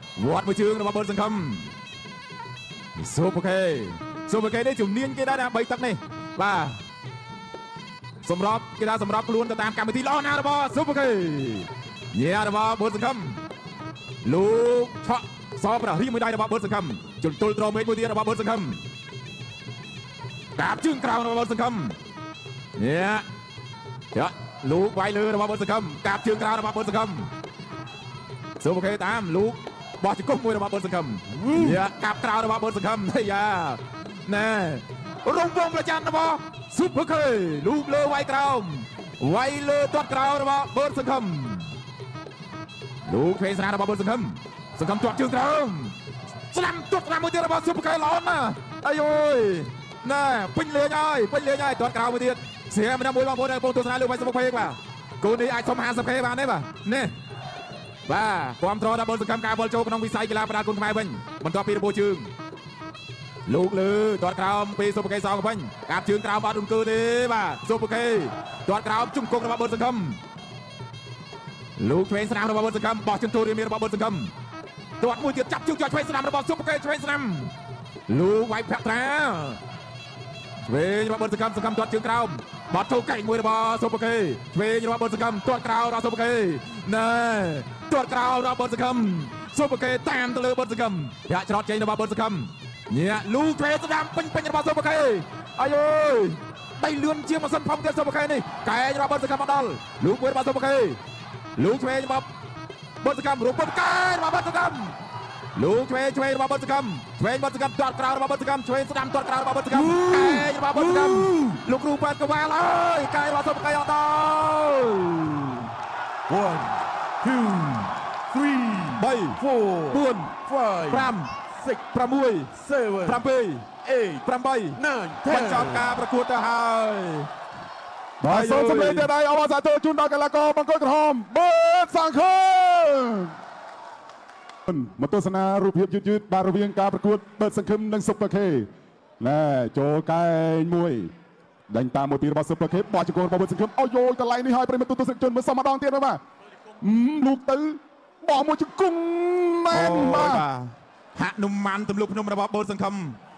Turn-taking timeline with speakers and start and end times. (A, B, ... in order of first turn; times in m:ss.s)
0:00.2-0:01.7 A
0:03.0-0:06.8 A
0:08.2-0:13.4 A
0:14.2-0:18.8 A
0:20.6-0:22.0 A
0:22.8-0:23.2 A
0:24.1-0:27.3 A
0:28.6-0:41.8 A
0:31.4-0:31.7 B
0:43.1-0:46.0 A
0:46.5-0:57.1 A
0:58.0-1:02.3 A
1:03.4-1:10.2 A
1:11.8-1:14.3 A
1:15.0-1:17.5 A
1:18.1-1:19.6 A
1:20.6-1:41.0 A
1:41.6-1:42.2 A
1:43.0-1:45.0 A
1:45.6-1:55.7 A
1:49.7-1:51.6 B
1:56.3-2:01.8 B
1:59.0-1:59.4 A
1:59.9-2:00.3 A
2:00.9-2:01.3 A
2:01.9-2:03.7 A
2:02.5-2:03.2 B
2:03.8-2:04.2 B
2:04.2-2:07.3 A
2:04.8-2:05.8 B
2:08.2-2:13.3 C
2:08.2-2:09.1 A
2:14.7-2:18.7 C
2:19.2-2:21.1 C
2:21.7-2:26.2 C
2:26.8-2:30.4 C
2:29.7-2:33.2 A